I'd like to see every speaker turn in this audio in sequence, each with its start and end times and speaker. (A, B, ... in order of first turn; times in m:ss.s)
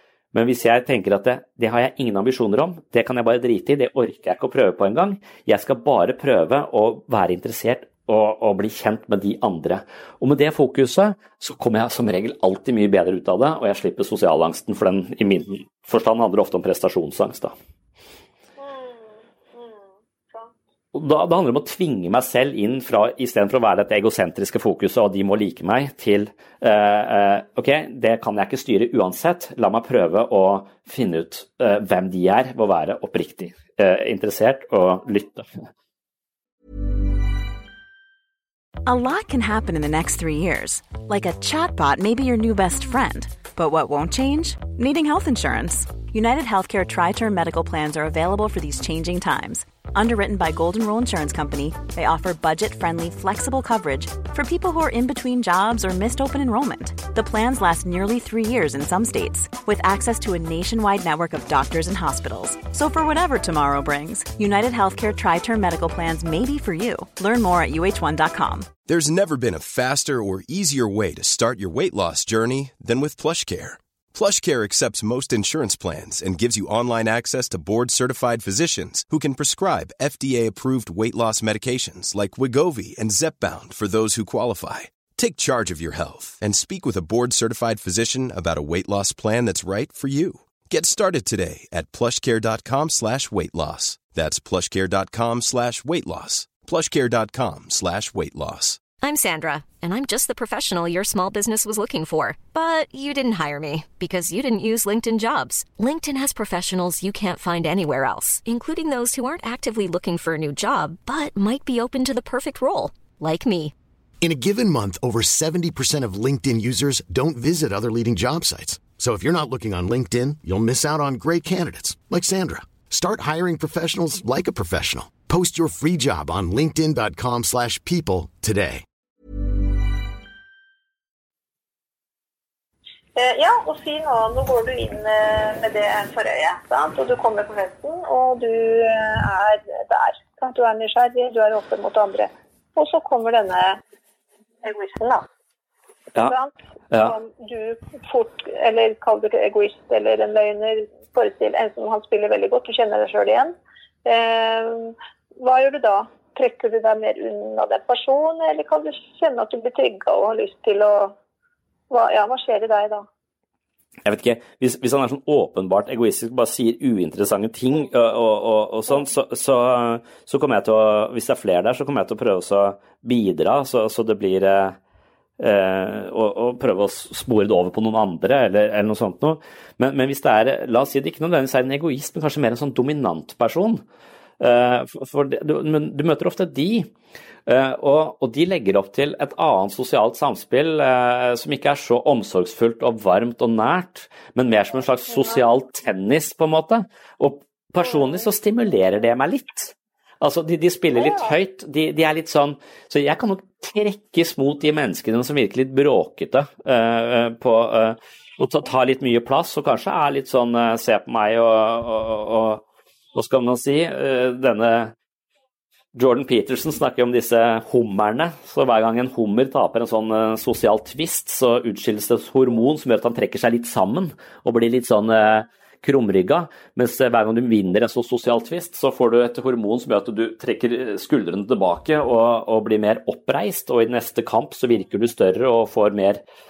0:00.3-0:17.5 A
0:18.6-0:20.5 B
0:20.9-0:35.5 A
0:38.8-1:08.7 C
1:08.9-1:38.8 D
1:39.0-1:53.7 E
1:54.2-2:08.8 F
2:13.2-2:23.8 B
2:24.6-2:25.2 B
2:26.2-2:33.5 B
2:34.0-2:41.1 B
2:41.9-2:43.0 B
2:44.0-2:54.8 A
2:55.4-3:03.8 A
3:04.4-3:06.9 A
3:07.4-3:32.6 A
3:20.9-3:21.3 B
3:33.1-3:34.9 A
3:35.9-3:56.2 A